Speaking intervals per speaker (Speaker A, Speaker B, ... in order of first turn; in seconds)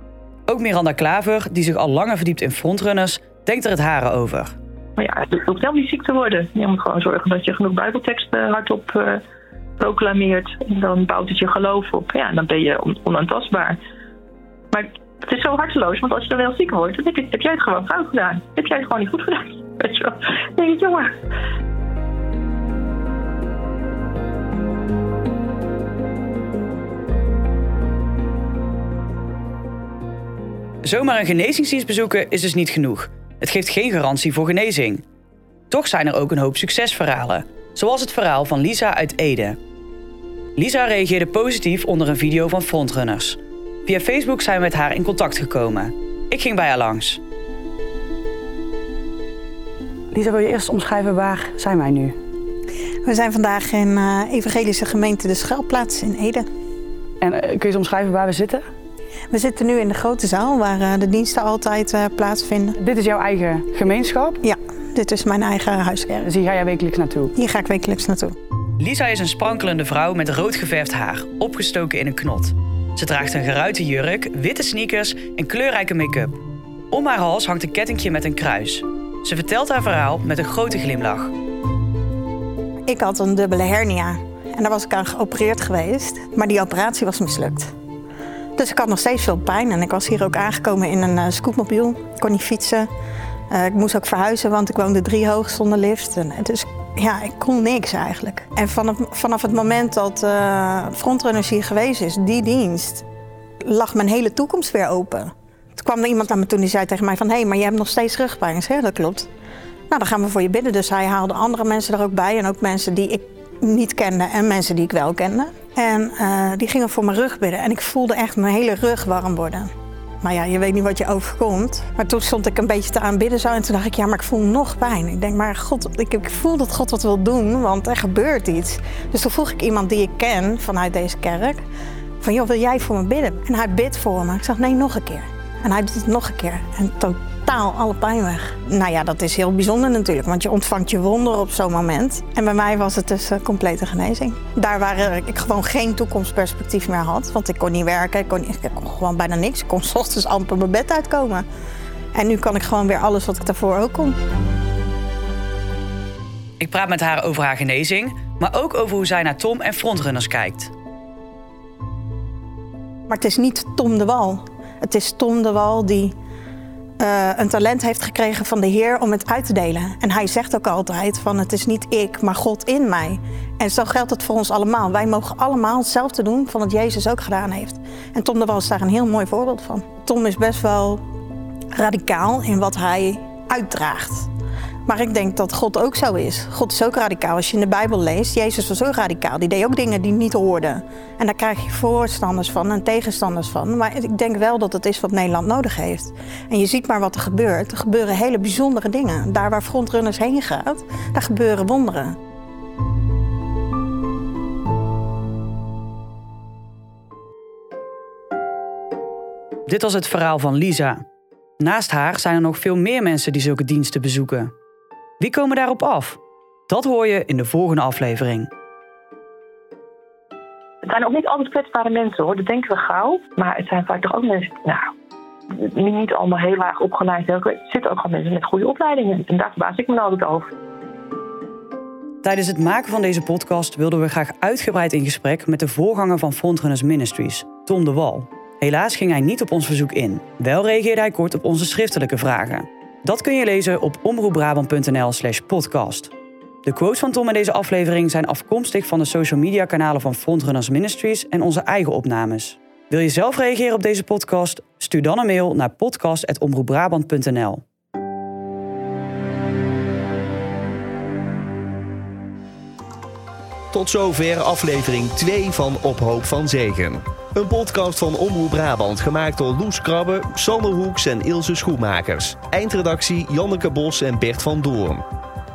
Speaker A: 0.5-4.5, 30.8-35.0, 35.7-39.6, 40.6-47.2, 50.1-52.1, 57.2-58.6, 62.8-64.4, 66.2-67.3, 68.8-76.4, 76.9-81.3, 156.6-160.7, 209.7-211.0, 211.6-214.5, 215.2-218.5, 232.2-246.1, 246.7-257.6
Speaker B: 5.0-9.2, 9.8-13.8, 14.7-21.1, 220.9-224.8, 225.6-230.5
Speaker C: 53.0-56.5, 59.3-62.8, 64.4-66.3, 67.3-68.3, 82.9-87.7, 88.6-92.9, 93.5-103.0, 103.7-109.3, 109.9-119.7, 120.2-131.6, 132.2-151.4, 152.2-154.2, 163.1-166.2, 167.0-181.0, 181.7-184.3, 184.9-202.2
Speaker D: 263.7-275.0